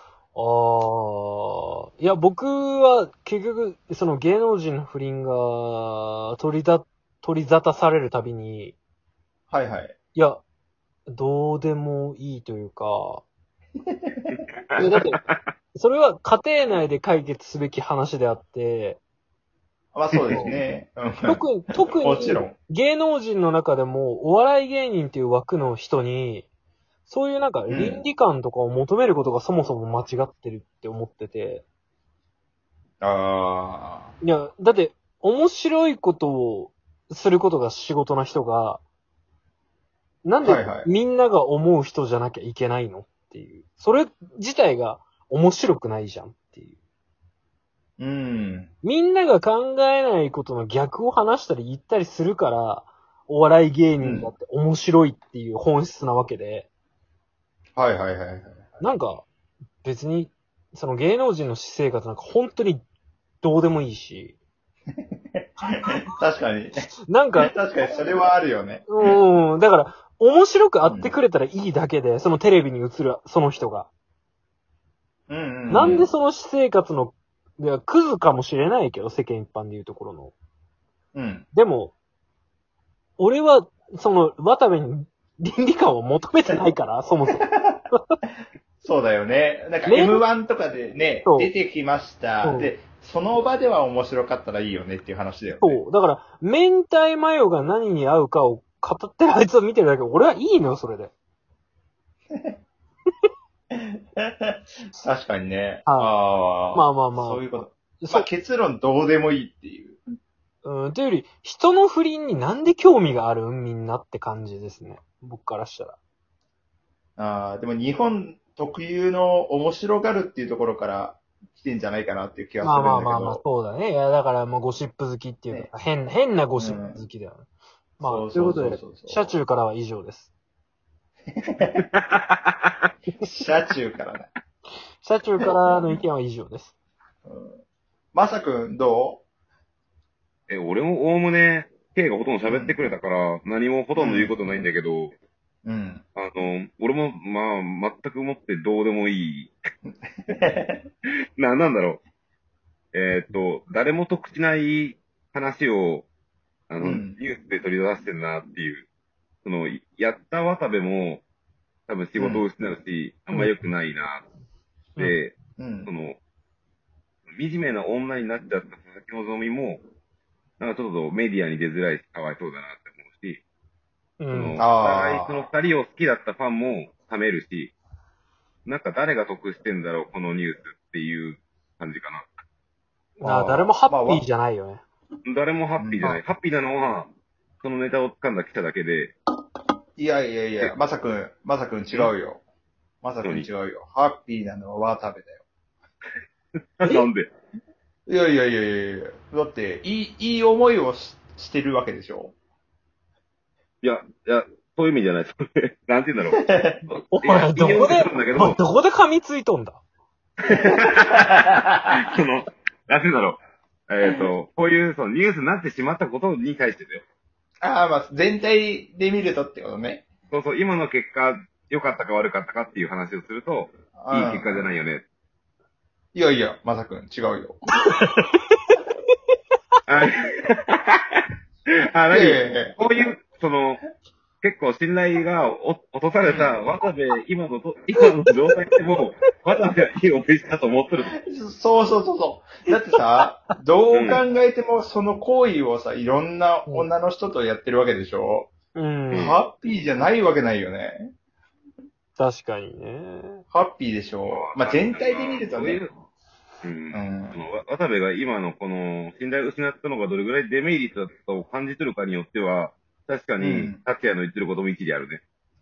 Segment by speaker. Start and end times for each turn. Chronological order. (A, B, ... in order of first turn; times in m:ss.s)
0:00.3-0:08.8 A
0:09.5-0:09.9 B
0:10.1-0:10.4 A
0:11.1-0:13.2 A
0:13.9-0:14.4 B
0:14.7-0:15.4 C
0:14.8-0:15.2 A
0:15.7-0:19.0 A
0:19.9-0:21.4 B
0:20.1-0:20.6 C
0:21.2-0:26.5 A
0:22.0-0:22.5 B
0:27.1-0:31.6 A
0:27.7-0:28.0 B
0:33.0-0:34.1 B
0:34.2-0:38.8 A
0:40.2-0:46.8 A
0:40.4-0:40.9 B
0:48.0-0:48.7 B
0:48.8-0:56.7 A
0:54.0-0:54.3 B
0:57.8-0:58.6 B
0:58.8-0:59.2 A
0:59.8-1:02.8 A
1:03.4-1:04.4 A
1:05.4-1:06.9 B
1:07.1-1:07.5 A
1:07.4-1:09.2 B
1:08.9-1:13.9 A
1:10.8-1:11.2 B
1:15.3-1:16.1 B
1:15.7-1:20.3 A
1:21.1-1:21.4 B
1:21.5-1:21.9 A
1:23.2-1:28.1 A
1:27.3-1:27.8 B
1:28.8-1:35.8 B
1:29.9-1:30.2 A
1:31.2-1:31.5 A
1:32.4-1:32.7 A
1:35.6-1:41.1 A
1:43.7-1:50.0 B
1:45.9-1:46.1 A
1:46.7-1:48.3 A
1:50.6-1:56.0 A
1:57.2-2:03.4 B
2:02.6-2:07.5 A
2:06.6-2:07.0 B
2:08.0-2:10.3 A
2:08.0-2:09.4 B
2:11.3-2:11.8 B
2:11.9-2:12.5 C
2:13.3-2:14.3 B
2:15.0-2:16.7 A
2:15.4-2:16.0 B
2:17.2-2:17.6 B
2:18.1-2:19.2 B
2:20.5-2:25.1 C
2:22.4-2:22.8 B
2:24.0-2:24.4 B
2:25.6-2:26.0 B
2:26.2-2:29.5 C
2:29.9-2:30.8 B
2:31.4-2:32.0 C
2:32.9-2:36.1 C
2:36.7-2:38.9 C
2:36.8-2:37.2 B
2:39.4-2:41.2 C
2:41.9-2:44.2 C
2:42.2-2:42.4 B
2:43.3-2:43.7 A
2:45.0-2:46.2 C
2:45.6-2:45.9 B
2:47.3-2:49.8 C
2:50.6-2:53.4 C
2:54.2-2:54.6 A
2:54.3-2:57.7 C
2:54.6-2:55.4 B
2:58.7-3:02.3 C
3:03.2-3:04.8 A
3:03.2-3:04.2 B
3:05.2-3:07.1 C
3:05.8-3:06.2 B
3:07.6-3:09.1 C
3:10.0-3:12.4 B
3:13.0-3:15.4 B
3:16.8-3:17.3 C
3:18.1-3:22.3 B
3:23.8-3:28.6 C
3:26.3-3:26.8 B
3:27.1-3:29.8 A
3:30.4-3:37.0 C
3:30.7-3:31.9 B
3:37.6-3:40.1 B
3:40.3-3:45.0 C
3:44.0-3:44.6 B
3:46.1-3:47.6 B
3:47.8-3:48.8 A
3:49.9-3:51.2 C
3:51.9-3:53.8 C
3:52.1-3:52.8 B
3:54.4-4:01.1 C
3:56.2-3:56.5 B
4:01.2-4:08.5 B
4:03.9-4:04.2 C
4:08.8-4:09.3 A
4:09.1-4:09.4 C
4:09.1-4:11.1 B
4:12.2-4:13.4 A
4:13.5-4:15.8 B
4:14.3-4:15.9 C
4:16.6-4:25.2 C
4:16.9-4:17.4 B
4:23.4-4:23.8 B